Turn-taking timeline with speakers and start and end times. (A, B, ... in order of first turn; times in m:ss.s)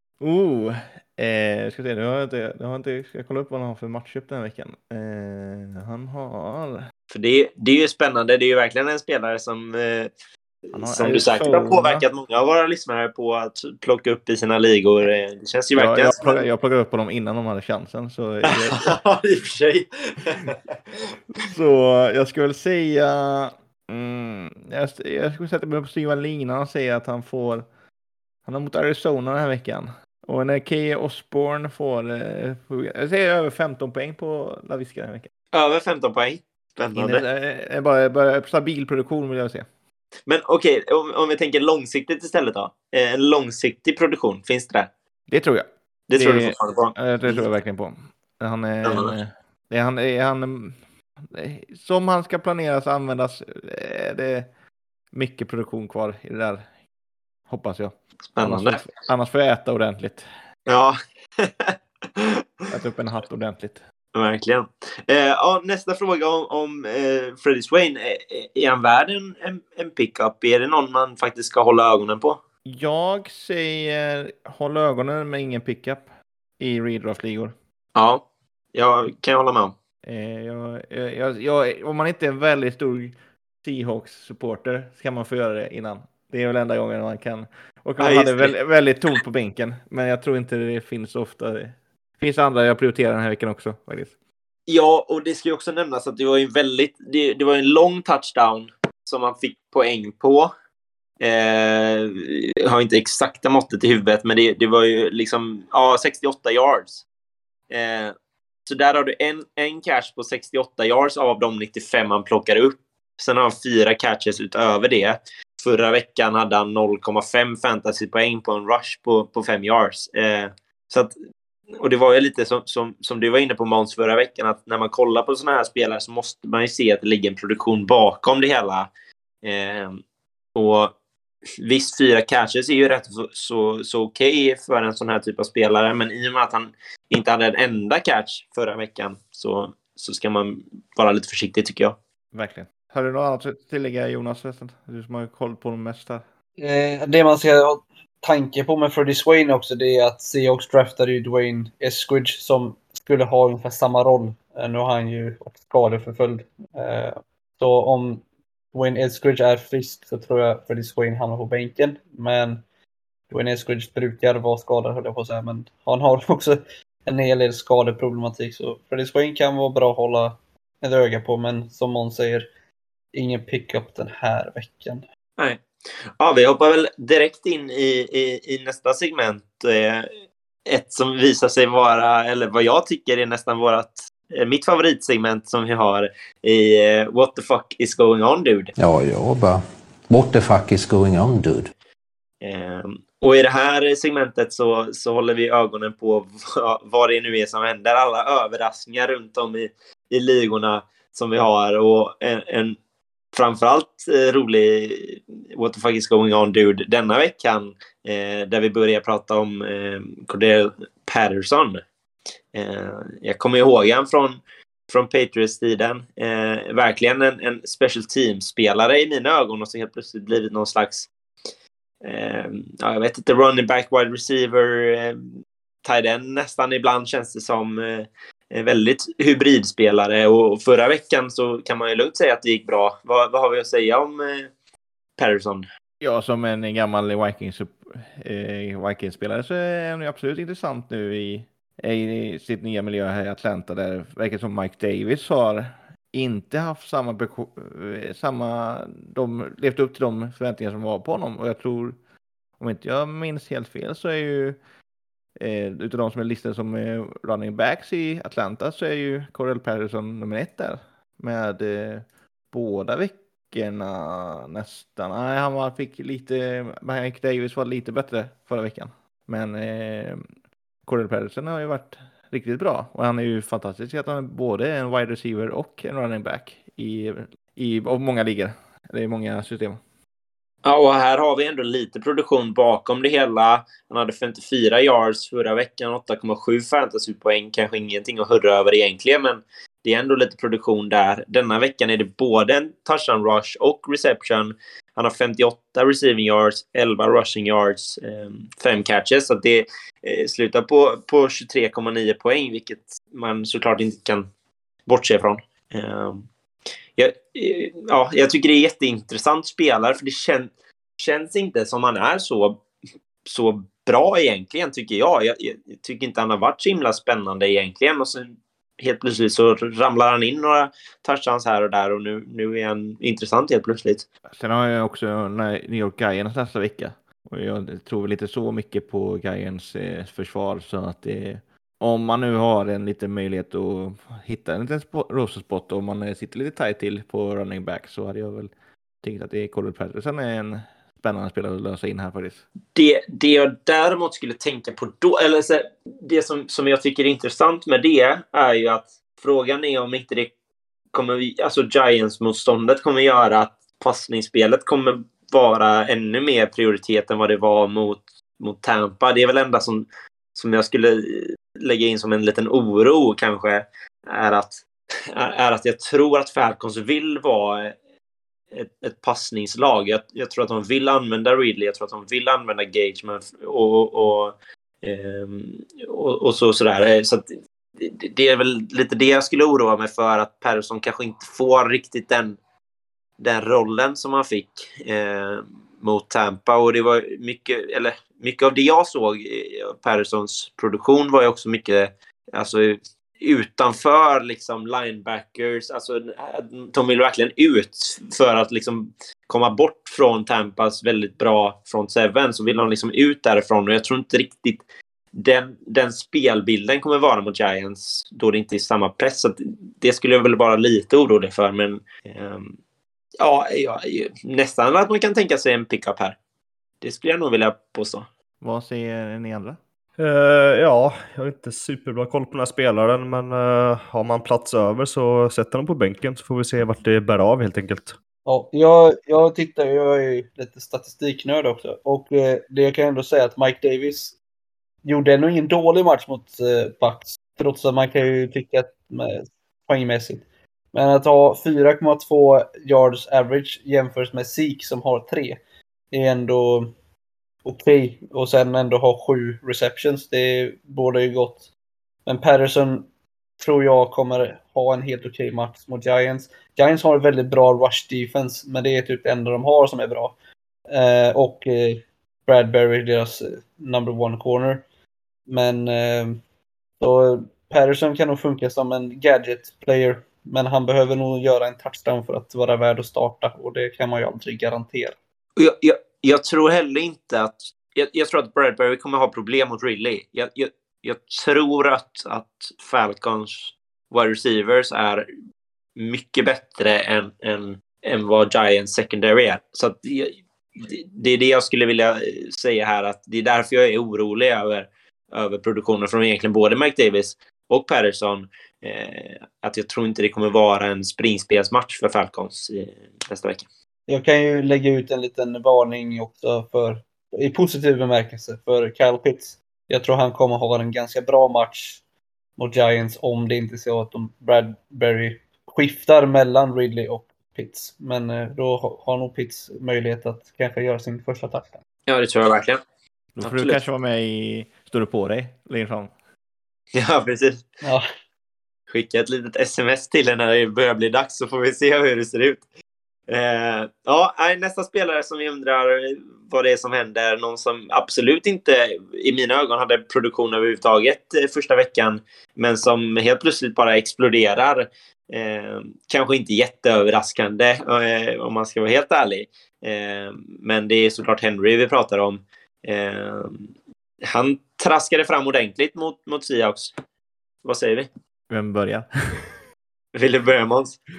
0:00.2-0:06.9 A
0:07.1-0:10.1 B
0:10.7-0:16.4 B
0:10.7-0:12.0 A
0:15.8-0:18.9 A
0:18.4-0:20.6 B
0:21.4-0:27.7 A
0:28.5-0:35.3 A
0:35.5-0:37.2 B
0:37.0-0:39.7 A
0:40.3-0:44.9 B
0:45.3-0:54.5 A
0:46.1-0:47.4 B
0:48.8-0:49.2 B
0:55.1-0:56.7 A
0:57.5-1:00.3 A
0:58.3-0:58.9 B
1:00.7-1:02.4 B
1:02.7-1:03.8 A
1:04.1-1:12.4 B
1:12.7-1:16.1 A
1:16.6-1:17.5 A
1:18.0-1:18.2 B
1:18.7-1:19.7 B
1:20.0-1:34.1 A
1:28.0-1:28.5 B
1:34.7-1:40.5 B
1:41.2-1:47.0 B
1:47.7-1:48.1 B
1:48.7-2:01.1 B
2:01.8-2:08.9 B
2:09.4-2:10.0 B
2:10.6-2:10.9 B
2:11.6-2:22.0 B
2:22.3-2:26.2 A
2:26.6-2:38.2 C
2:38.7-2:42.6 C
2:43.3-2:52.5 C
2:53.1-2:55.0 C
2:56.2-3:00.1 B
3:00.7-3:08.7 B
3:08.8-3:11.7 D
3:12.4-3:22.8 B
3:23.3-3:31.8 B
3:32.5-3:41.1 B
3:42.0-3:54.5 B
3:55.2-3:55.6 B
3:56.0-4:12.0 A
4:12.6-4:14.6 A
4:15.4-4:30.3 A
4:30.9-4:39.8 A
4:40.6-5:04.3 B
5:04.9-5:06.3 B
5:07.0-5:12.6 B
5:13.3-5:24.0 B
5:24.3-5:38.5 A
5:39.0-5:42.4 A
5:42.8-5:50.3 B
5:50.9-6:07.7 B
6:08.5-6:17.3 B
6:17.8-6:22.4 B
6:23.2-6:44.6 B
6:45.2-6:52.6 B
6:53.2-6:56.2 B
6:56.8-6:58.1 B
6:58.4-6:59.6 A
7:00.0-7:08.0 E
7:08.3-7:14.2 C
7:14.8-7:25.4 C
7:25.9-7:26.7 C
7:27.4-7:31.5 C
7:32.1-7:32.9 C
7:33.4-7:40.1 C
7:40.7-7:44.6 C
7:45.3-7:46.2 C
7:46.8-7:55.0 C
7:55.4-8:05.1 B
8:05.8-8:23.5 B
8:23.9-8:31.8 C
8:32.4-8:41.6 C
8:41.9-8:42.6 B
8:43.2-8:45.9 A
8:43.2-8:43.6 B
8:46.7-8:47.4 B
8:48.7-8:52.4 B
8:53.1-9:13.5 B
9:14.1-9:16.7 B
9:17.4-9:17.9 B
9:18.3-9:19.3 A
9:19.9-9:20.8 B